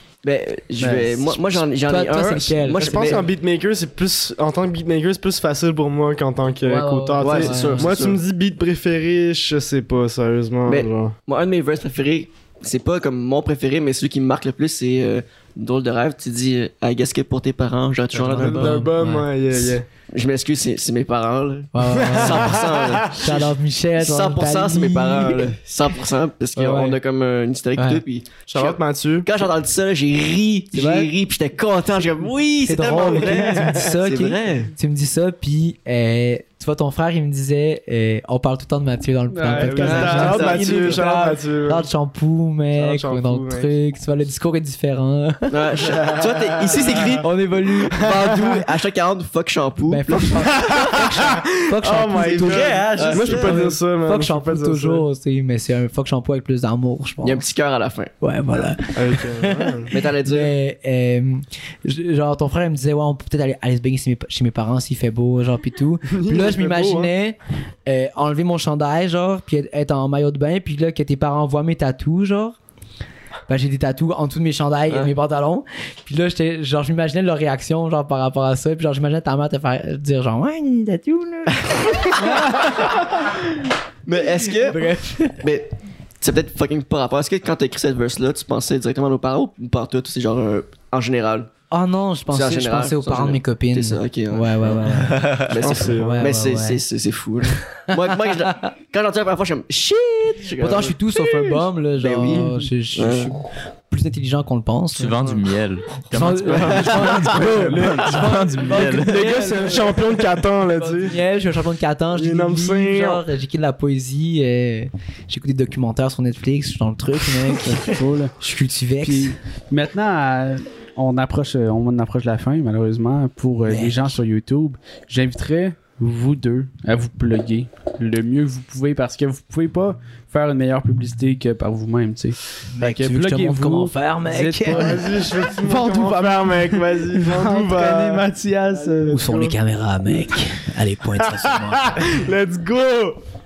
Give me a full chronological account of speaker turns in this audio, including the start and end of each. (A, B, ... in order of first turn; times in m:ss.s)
0:00.2-0:03.2 A
0:00.8-0:01.2 B
0:01.5-0:03.3 C
0:02.8-0:11.1 D
0:06.6-0:08.1 C
0:07.2-0:08.2 A
0:10.7-0:18.8 A
0:18.2-0:19.3 C
0:18.2-0:19.9 D
0:20.1-0:34.7 A
0:21.7-0:22.6 C
0:21.9-0:23.3 D
0:23.2-0:25.6 C
0:26.6-0:26.9 C
0:27.8-0:28.0 C
0:28.5-0:29.3 D
0:32.6-0:45.8 C
0:32.8-0:33.8 D
0:39.3-0:40.4 B
0:39.5-0:41.9 D
0:39.8-0:41.0 A
0:42.7-0:43.7 D
0:45.5-0:47.3 A
0:45.8-0:47.2 D
0:47.2-0:48.3 C
0:47.9-0:48.6 D
0:47.9-0:51.0 A
0:49.9-0:57.4 C
0:50.5-0:55.0 D
0:52.2-0:53.6 A
0:57.2-0:58.1 A
0:58.2-1:12.6 C
0:58.9-0:59.9 D
0:59.9-1:00.6 A
1:06.1-1:07.1 D
1:13.5-1:23.1 C
1:21.6-1:22.9 A
1:24.1-1:25.7 A
1:24.6-1:25.4 C
1:26.2-1:31.5 A
1:31.7-1:36.8 C
1:32.3-1:43.4 A
1:35.5-1:36.3 D
1:40.6-1:45.3 C
1:44.9-1:49.5 E
1:46.1-1:59.4 C
1:46.4-1:47.4 A
1:47.3-1:51.2 D
1:52.1-1:53.2 D
1:57.6-1:58.4 B
1:59.0-2:19.5 B
2:03.6-2:04.1 C
2:12.7-2:15.0 C
2:14.7-2:19.5 D
2:19.1-2:22.1 C
2:21.2-2:23.2 D